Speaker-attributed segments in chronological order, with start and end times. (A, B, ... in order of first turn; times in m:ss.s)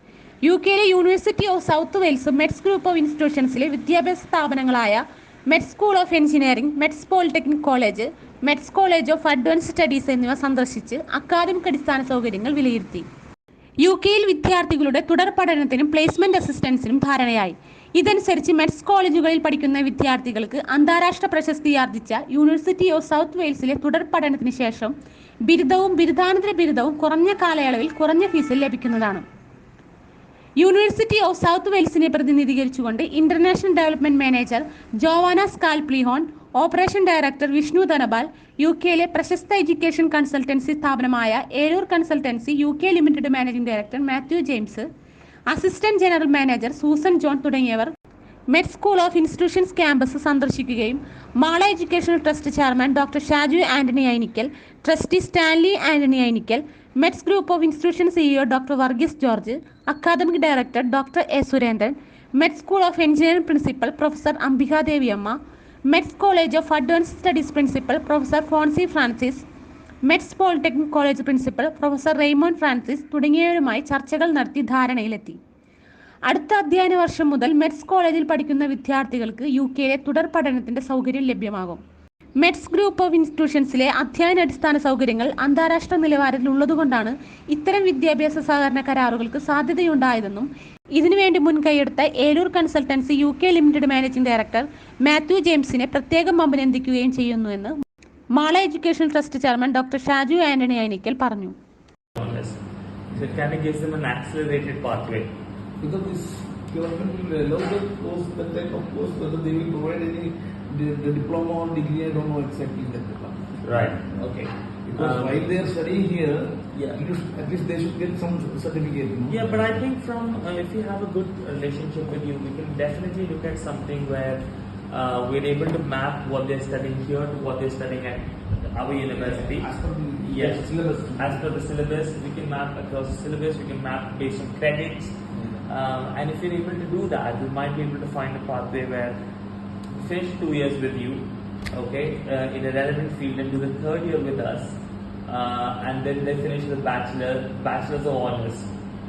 0:00.4-0:13.1 A
0:13.8-0:24.9 A
0:25.4-0:29.2 A
0:30.6-0:44.9 A
0:45.5-0:47.9 A
0:48.5-1:09.5 A
1:10.1-1:15.4 A
1:16.3-1:21.8 A
1:22.4-1:37.8 A
1:38.3-1:41.5 A
1:42.2-1:45.3 B
1:45.8-1:59.7 C
1:53.6-1:54.3 B
1:55.0-1:55.5 B
1:56.7-1:57.0 B
1:59.3-2:19.2 B
2:09.1-2:11.4 C
2:15.3-2:15.7 C
2:19.9-2:28.7 B